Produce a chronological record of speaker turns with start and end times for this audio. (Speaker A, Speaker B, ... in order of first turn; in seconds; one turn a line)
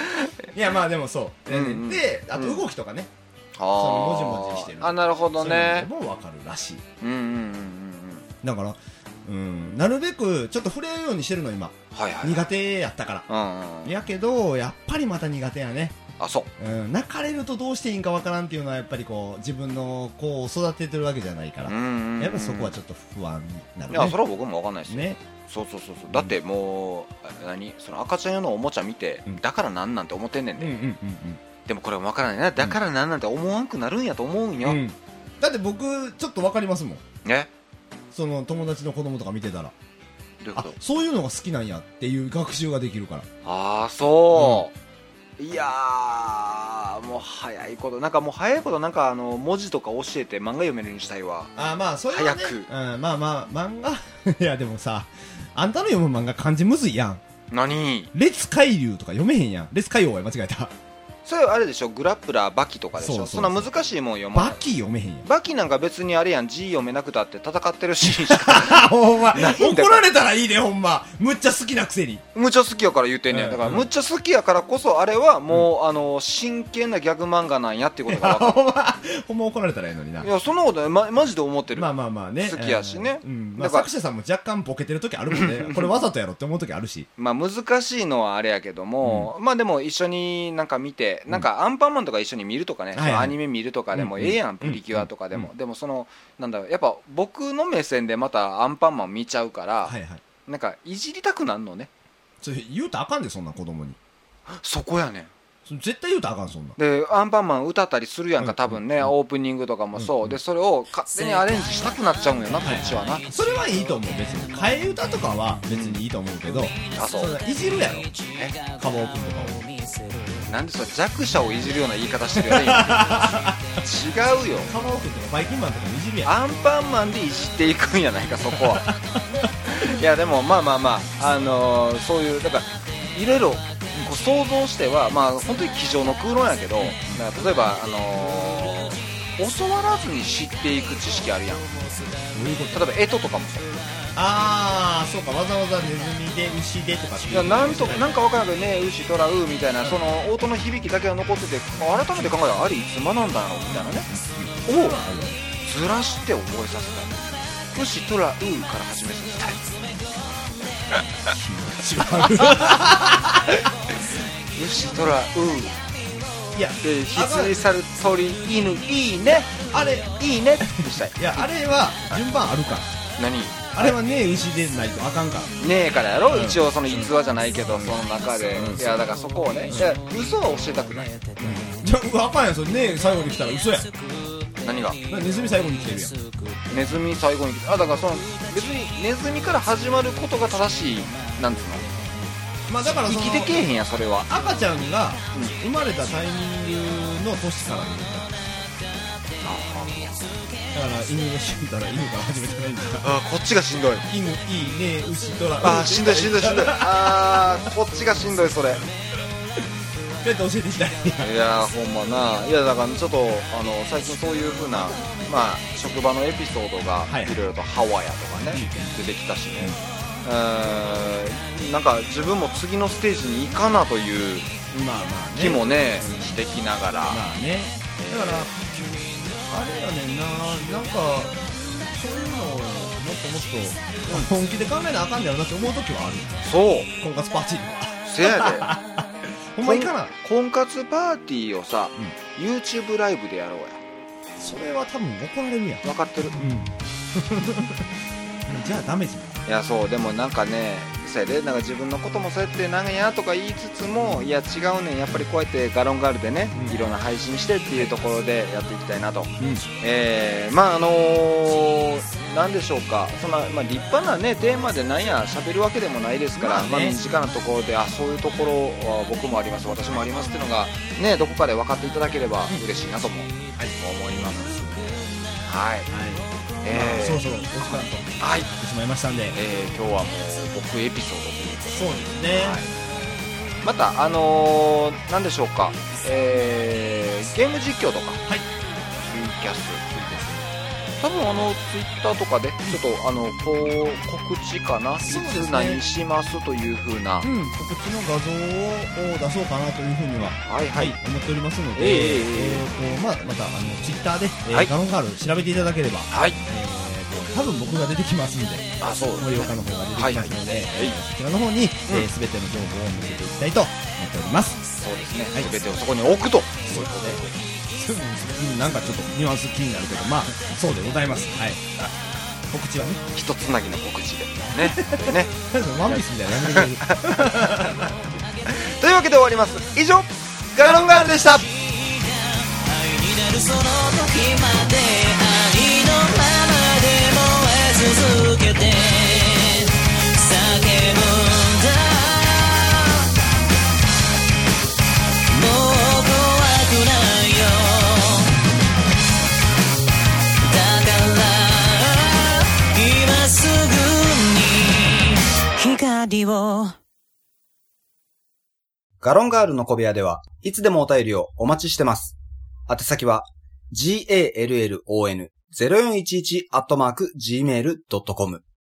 Speaker A: 0.5-3.1
Speaker B: 1.5-2.6
Speaker B: 3.6-5.9
Speaker A: 3.8-6.8
Speaker B: 7.0-8.3
Speaker A: 8.4-13.3
Speaker B: 11.9-12.5
Speaker B: 13.3-13.9
Speaker A: 13.8-16.0
Speaker B: 16.2-16.5
Speaker A: 16.6-24.2
Speaker B: 21.7-22.8
Speaker B: 23.9-30.7
Speaker A: 24.9-25.2
Speaker A: 30.6-31.4
Speaker B: 31.7-34.8
Speaker A: 34.6-37.0
Speaker B: 37.2-37.5
Speaker A: 38.1-39.7
Speaker B: 40.4-40.8
Speaker A: 40.6-43.3
Speaker B: 43.5-44.7
Speaker A: 44.4-44.6
Speaker B: 45.4-51.5
Speaker A: 51.6-57.2
Speaker B: 52.1-52.7
Speaker B: 57.5-58.1
Speaker A: 58.1-60.7
Speaker B: 61.2-64.6
Speaker A: 63.0-63.7
Speaker A: 64.3-65.3
Speaker B: 65.2-70.0
Speaker A: 68.0-72.2
Speaker B: 72.3-78.6
Speaker A: 73.3-73.9
Speaker A: 78.1-80.3
Speaker B: 80.2-81.9
Speaker A: 81.8-87.1
Speaker B: 82.4-83.9
Speaker B: 85.3-86.0
Speaker B: 87.2-100.0
Speaker A: 89.0-89.3
Speaker A: 93.0-93.4
Speaker A: 93.9-95.5
Speaker A: 99.8-100.2
Speaker B: 100.5-101.9
Speaker A: 102.4-104.0
Speaker B: 104.5-105.3
Speaker A: 105.7-106.8
Speaker B: 106.8-113.2
Speaker A: 108.4-109.1
Speaker A: 110.0-110.4
Speaker A: 112.6-118.1
Speaker B: 115.7-116.0
Speaker B: 116.9-117.3
Speaker B: 118.3-118.6
Speaker A: 118.8-119.7
Speaker B: 120.5-124.7
Speaker A: 122.4-123.6
Speaker A: 124.7-126.3
Speaker B: 126.2-128.9
Speaker A: 128.6-129.5
Speaker B: 129.7-141.7
Speaker A: 136.8-137.2
Speaker A: 142.3-142.9
Speaker B: 142.7-143.8
Speaker A: 144.2-148.2
Speaker B: 147.3-154.1
Speaker A: 153.7-155.4
Speaker B: 154.7-155.0
Speaker B: 155.6-159.7
Speaker A: 161.3-163.7
Speaker B: 162.4-162.8
Speaker B: 164.6-165.8
Speaker A: 166.5-167.6
Speaker B: 166.8-169.6
Speaker A: 169.5-172.9
Speaker B: 170.2-171.5
Speaker B: 173.2-174.0
Speaker A: 173.7-175.5
Speaker B: 175.6-181.3
Speaker A: 176.3-177.1
Speaker A: 177.7-178.0
Speaker A: 178.6-178.9
Speaker A: 179.7-180.0
Speaker A: 181.4-183.9
Speaker B: 184.6-185.0
Speaker A: 185.1-186.2
Speaker B: 186.7-191.9
Speaker A: 192.7-193.6
Speaker B: 193.1-194.3
Speaker A: 194.3-198.4
Speaker B: 199.4-200.2
Speaker A: 200.7-203.1
Speaker B: 203.0-204.1
Speaker A: 204.0-207.6
Speaker B: 205.6-208.8
Speaker A: 210.2-211.3
Speaker B: 211.2-224.5
Speaker A: 217.1-217.4
Speaker A: 218.4-218.9
Speaker A: 224.7-226.4
Speaker B: 225.4-227.2
Speaker A: 227.1-240.1
Speaker B: 228.0-228.5
Speaker B: 236.4-236.9
Speaker B: 238.1-238.7
Speaker B: 239.6-243.8
Speaker A: 244.4-245.8
Speaker B: 245.8-246.4
Speaker A: 246.3-247.9
Speaker A: 248.5-249.4
Speaker B: 249.5-274.6
Speaker A: 256.5-256.8
Speaker A: 259.4-259.6
Speaker A: 266.4-267.0
Speaker A: 273.6-274.9
Speaker B: 275.4-275.9
Speaker A: 275.9-279.4
Speaker B: 276.6-277.3
Speaker B: 278.2-278.5
Speaker B: 279.3-282.7
Speaker A: 281.7-282.7
Speaker B: 283.6-288.2
Speaker B: 288.9-289.9
Speaker A: 289.9-290.5
Speaker B: 291.0-297.3
Speaker A: 295.0-295.8
Speaker A: 297.2-314.6
Speaker B: 300.4-301.0
Speaker B: 301.8-302.7
Speaker B: 306.1-306.4
Speaker B: 308.8-311.0
Speaker B: 314.8-317.3
Speaker A: 316.7-321.9
Speaker A: 322.5-323.1
Speaker B: 323.1-325.3
Speaker A: 324.5-327.9
Speaker B: 325.9-327.9
Speaker B: 328.5-331.4
Speaker A: 330.6-331.4
Speaker C: 331.5-343.1
Speaker C: 345.3-348.3
Speaker C: 350.4-356.8
Speaker D: 359.0-362.2
Speaker D: 362.7-368.4